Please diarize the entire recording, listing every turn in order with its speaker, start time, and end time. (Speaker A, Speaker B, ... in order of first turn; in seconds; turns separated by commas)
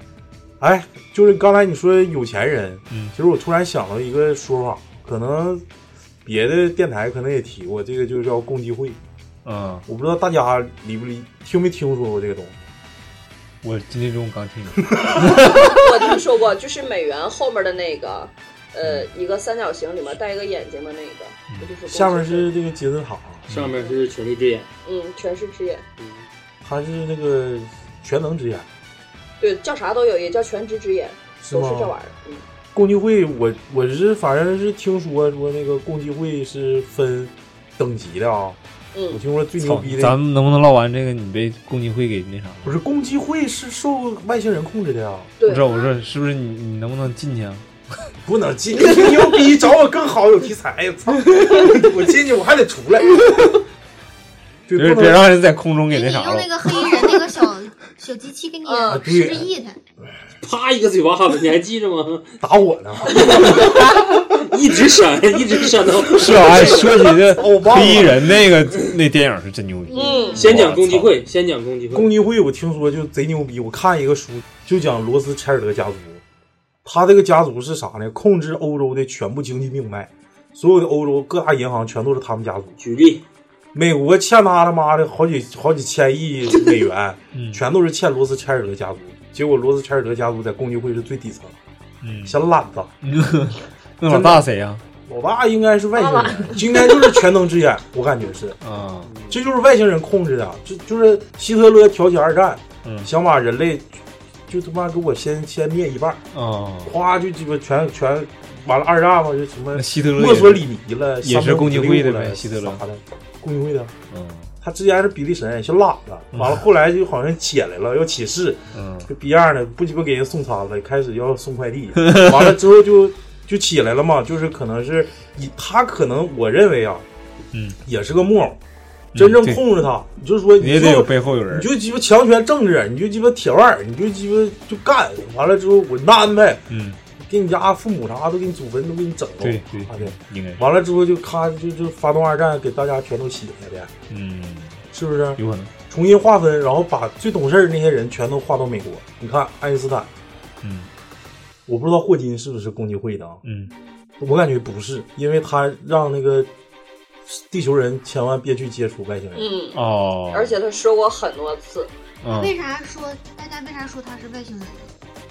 Speaker A: 0.6-5.7, Speaker A: 6.2-9.0, Speaker B: 9.4-9.8, Speaker A: 9.9-12.7, Speaker B: 13.6-15.8, Speaker C: 15.4-22.5, Speaker A: 21.9-23.4, Speaker D: 23.5-24.7, Speaker C: 24.9-25.9, Speaker D: 26.0-26.3, Speaker A: 26.6-28.7, Speaker C: 29.4-32.4, Speaker A: 31.4-31.9, Speaker A: 32.7-38.6, Speaker C: 38.9-39.2, Speaker A: 39.1-40.2, Speaker B: 39.6-42.8, Speaker A: 42.6-45.3, Speaker C: 45.4-45.9, Speaker B: 45.5-47.6, Speaker A: 48.2-53.5, Speaker A: 54.7-55.3, Speaker B: 54.8-56.7, Speaker E: 55.9-59.8, Speaker C: 58.6-59.0, Speaker A: 58.9-59.5, Speaker D: 60.4-62.3, Speaker A: 62.4-63.7, Speaker D: 63.1-67.0, Speaker B: 66.1-71.1, Speaker A: 66.3-68.3, Speaker C: 69.9-70.5, Speaker E: 69.9-70.3, Speaker D: 70.4-72.1, Speaker A: 71.9-76.2, Speaker A: 76.8-82.7, Speaker D: 82.8-83.2, Speaker A: 83.7-91.6, Speaker B: 87.3-87.6, Speaker B: 92.0-92.4, Speaker A: 92.3-92.9, Speaker B: 93.0-94.8, Speaker A: 94.1-94.5, Speaker A: 95.1-98.6, Speaker C: 96.0-97.1, Speaker B: 98.6-99.1, Speaker D: 99.1-99.3, Speaker A: 99.3-104.0, Speaker B: 102.8-103.1, Speaker A: 104.5-106.2, Speaker B: 106.3-107.0, Speaker A: 106.8-113.9, Speaker B: 109.8-110.7, Speaker B: 111.2-112.8, Speaker B: 114.1-114.5, Speaker A: 114.6-127.1, Speaker B: 116.3-116.6, Speaker B: 118.7-119.1, Speaker B: 122.0-122.5, Speaker A: 127.9-128.6, Speaker B: 129.2-129.7, Speaker A: 129.2-136.7, Speaker B: 130.6-131.7, Speaker B: 136.7-137.0, Speaker A: 137.2-143.9, Speaker B: 139.4-140.7, Speaker B: 144.1-144.8, Speaker A: 144.9-150.1, Speaker B: 145.4-145.7, Speaker B: 150.6-150.9, Speaker A: 151.7-153.4, Speaker B: 153.4-153.7, Speaker E: 153.7-154.1, Speaker A: 154.2-156.5, Speaker A: 157.3-159.5, Speaker C: 159.3-159.8, Speaker B: 159.7-160.6, Speaker C: 160.3-161.9, Speaker B: 162.2-162.5, Speaker E: 162.3-164.9